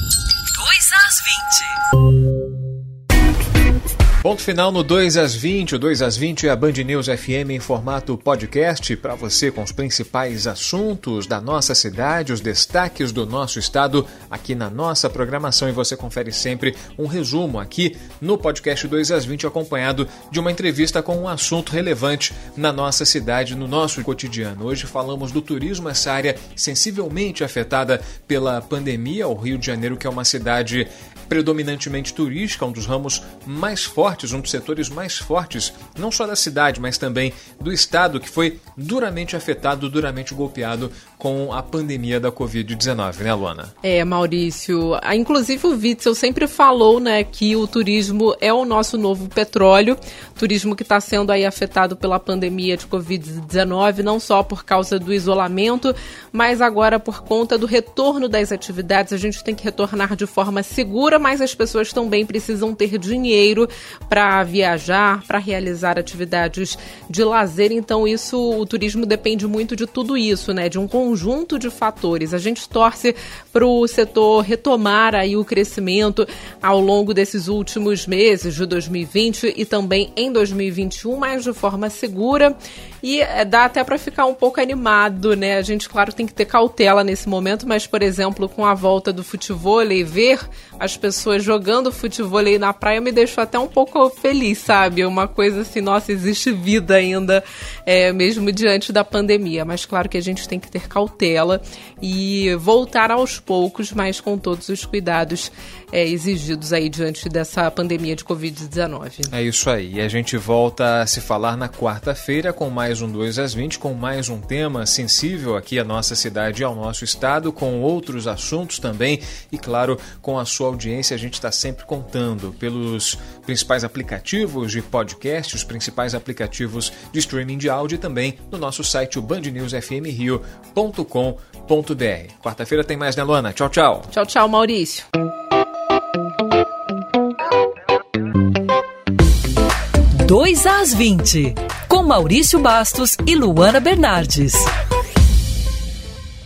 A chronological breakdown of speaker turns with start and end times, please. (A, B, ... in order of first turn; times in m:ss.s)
0:00.6-0:01.8 A
0:04.2-0:43.7 B
0:43.8-1:49.3 C
1:49.3-2:14.1 B
2:14.1-2:15.1 C
2:20.1-2:24.7 A